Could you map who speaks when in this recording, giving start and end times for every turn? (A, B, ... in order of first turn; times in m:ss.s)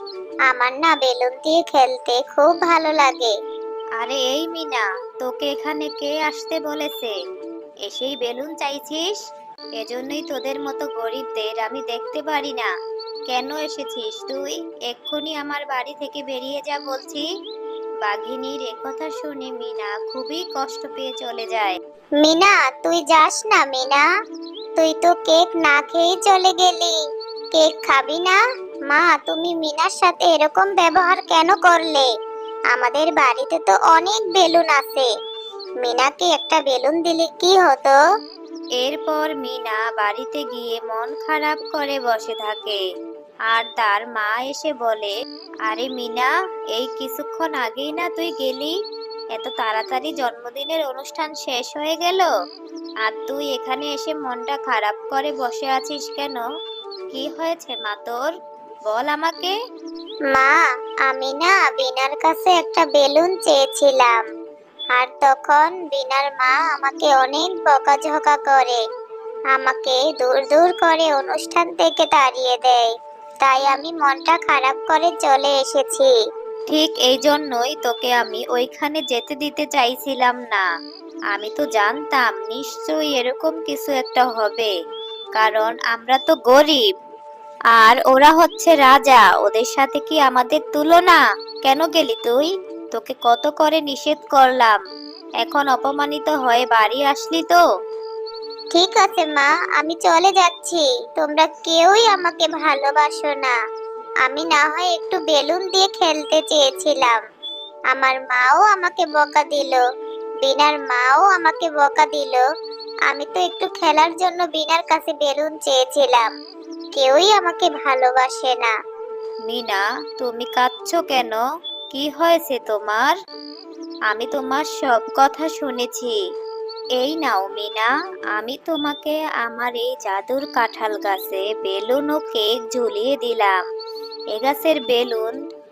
0:00.5-0:03.4 A
0:04.0-0:07.1 B
0:07.8-0:09.2 B
0:09.8-0:12.7 B
0:13.3-0:17.2 B
0:18.0-0:21.8 B
0:22.2-0:24.0 A
0:24.8-0:27.0 A
0:27.5-0:32.1 A
0:32.7-0:35.1 A
0:35.8-0:38.0 A
0:38.8-0:42.8 B
0:43.5-0:45.1 B
0:45.6-0:48.7 B
0:49.3-0:52.3 B
0:53.0-0:56.4 B
0:57.1-0:58.2 B
0:58.9-0:59.5 B
1:00.3-1:04.2 A
1:04.9-1:08.8 A
1:09.5-1:12.9 A
1:13.4-1:16.1 A
1:16.7-1:20.6 B
1:21.3-1:24.7 B
1:25.4-1:26.8 B
1:27.7-1:34.8 B
1:35.4-1:37.6 B
1:38.7-1:43.6 A
1:44.2-1:47.2 A
1:47.9-1:49.8 A
1:50.4-1:52.4 A
1:53.1-1:56.3 A
1:57.0-1:58.7 A
1:59.5-2:03.2 B
2:04.1-2:06.2 B
2:07.0-2:13.6 B
2:14.3-2:15.3 B